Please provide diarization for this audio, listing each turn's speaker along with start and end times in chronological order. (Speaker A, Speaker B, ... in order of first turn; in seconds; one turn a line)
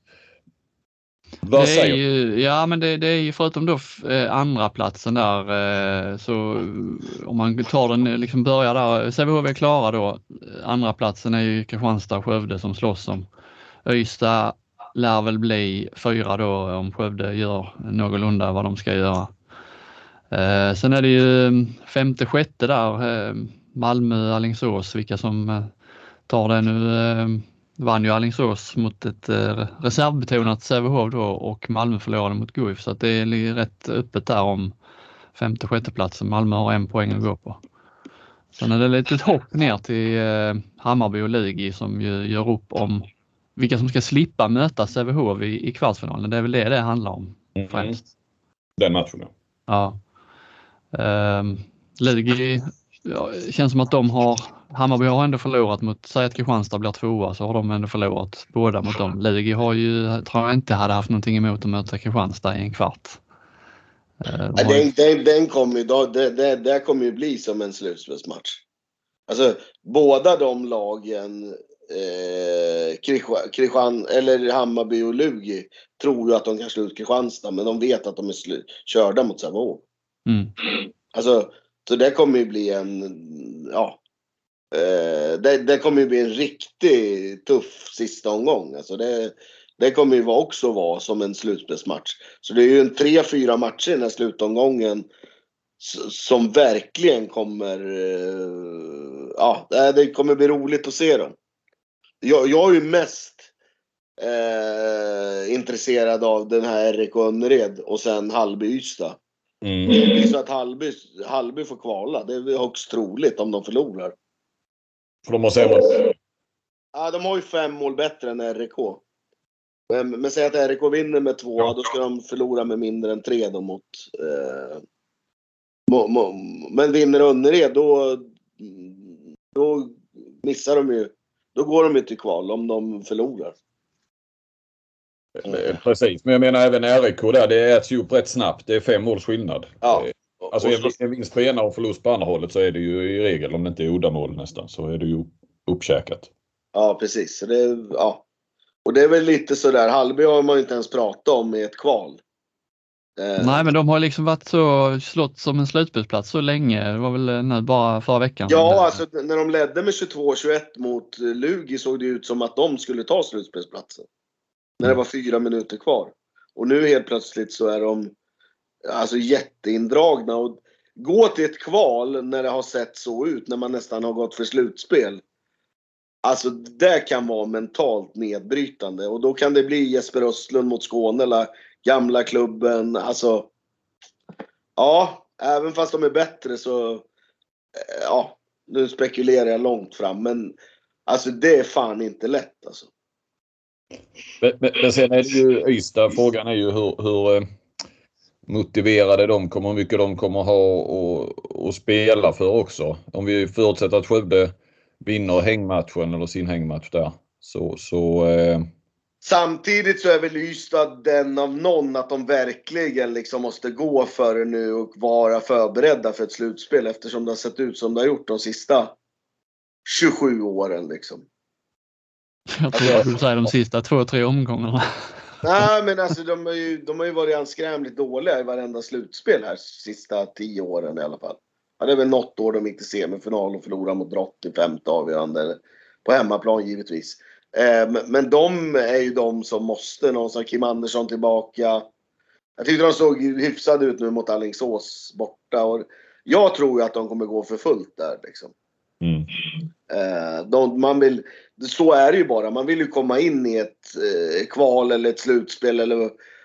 Speaker A: 1.4-2.0
Speaker B: 1.5-13.2
Speaker B: 13.8-19.3
Speaker B: 20.3-25.7
Speaker B: 26.3-34.7
Speaker B: 35.3-37.6
Speaker B: 38.5-43.0
Speaker B: 43.6-48.0
Speaker A: 47.5-48.0
Speaker A: 48.8-49.3
Speaker B: 49.7-50.0
Speaker B: 50.9-63.2
Speaker B: 64.2-64.9
Speaker C: 64.6-68.6
Speaker C: 69.3-79.8
Speaker B: 80.2-80.5
Speaker C: 81.1-84.0
Speaker C: 84.7-95.1
Speaker C: 95.8-101.3
Speaker C: 102.2-103.5
Speaker C: 104.2-109.2
Speaker A: 109.6-110.3
Speaker C: 109.9-114.1
Speaker A: 115.2-116.1
Speaker C: 116.9-119.0
Speaker C: 119.9-124.8
Speaker C: 125.9-133.5
Speaker A: 135.4-146.3
Speaker C: 139.8-140.9
Speaker C: 146.7-148.2
Speaker C: 148.8-152.2
Speaker C: 153.2-153.7
Speaker B: 153.4-159.0
Speaker C: 158.5-164.1
Speaker C: 164.8-168.1
Speaker C: 168.9-175.2
Speaker C: 176.2-183.5
Speaker C: 184.8-187.0
Speaker C: 187.8-190.6
Speaker C: 191.1-192.9
Speaker A: 194.4-197.4
Speaker A: 198.5-208.7
Speaker C: 209.2-218.9
Speaker C: 219.8-221.2
Speaker B: 222.5-224.8
Speaker A: 222.8-223.0
Speaker C: 225.4-241.8
Speaker C: 242.6-248.5
Speaker A: 249.0-249.3
Speaker C: 249.9-256.2